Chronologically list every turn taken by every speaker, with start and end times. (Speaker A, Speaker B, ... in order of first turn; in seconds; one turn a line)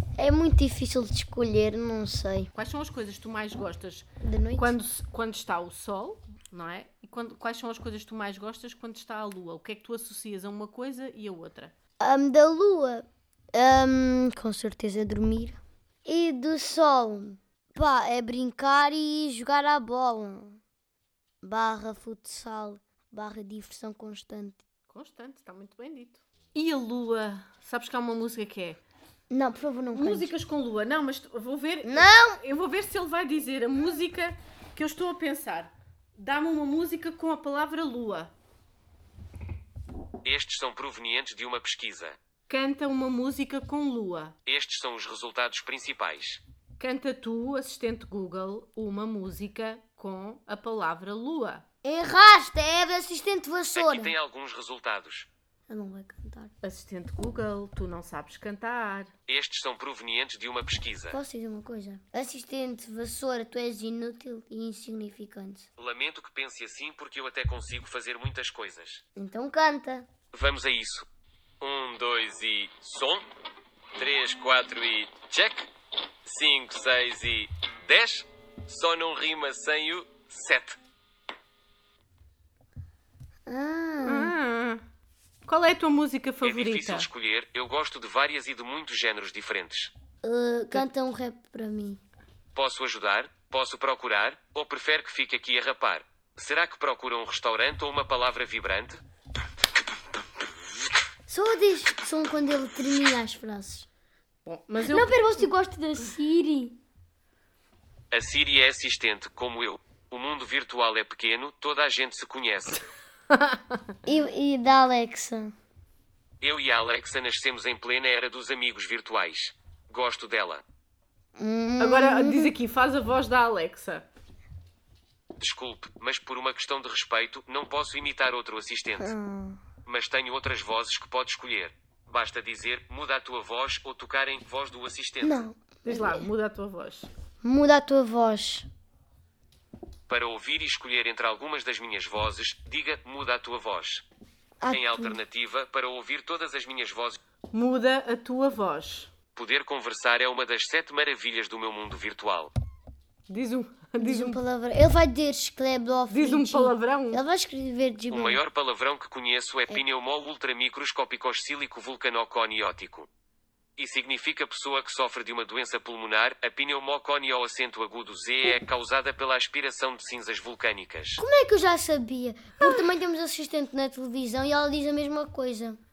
Speaker A: 0.2-2.5
Speaker B: 2.5-11.7
Speaker A: 4.2-4.7
Speaker A: 12.0-20.6
Speaker A: 21.4-24.6
Speaker B: 24.9-28.8
Speaker A: 29.3-30.3
Speaker B: 29.9-38.3
Speaker A: 31.8-32.4
Speaker C: 40.2-42.2
Speaker B: 42.5-44.4
Speaker C: 44.5-46.4
Speaker B: 46.8-51.6
Speaker A: 51.8-54.1
Speaker C: 53.7-55.3
Speaker A: 55.7-56.5
Speaker B: 56.6-59.1
Speaker C: 59.3-61.2
Speaker A: 61.1-65.7
Speaker C: 65.8-69.0
Speaker A: 69.2-70.1
Speaker C: 70.3-71.1
Speaker C: 71.6-73.3
Speaker C: 74.0-75.7
Speaker C: 76.3-80.8
Speaker A: 83.5-84.3
Speaker B: 84.0-84.8
Speaker B: 85.5-87.1
Speaker C: 86.4-89.9
Speaker A: 90.2-92.0
Speaker C: 92.5-99.0
Speaker A: 101.3-103.9
Speaker B: 104.5-105.4
Speaker A: 104.8-106.8
Speaker C: 108.1-112.8
Speaker B: 113.3-113.8
Speaker A: 114.1-115.5
Speaker C: 116.4-120.6
Speaker A: 121.4-122.5
Speaker B: 121.8-124.1
Speaker C: 125.4-129.2
Speaker A: 129.0-129.6
Speaker C: 129.8-135.4
Speaker A: 135.2-136.2
Speaker B: 135.8-137.1
Speaker A: 137.4-138.7
Speaker C: 140.1-144.1
Speaker A: 144.6-145.2
Speaker C: 144.7-147.2
Speaker B: 147.5-149.1
Speaker C: 149.3-152.5
Speaker B: 153.3-154.4
Speaker A: 154.0-158.4
Speaker B: 156.1-157.2
Speaker C: 158.1-163.1
Speaker C: 163.8-171.2
Speaker A: 171.2-175.8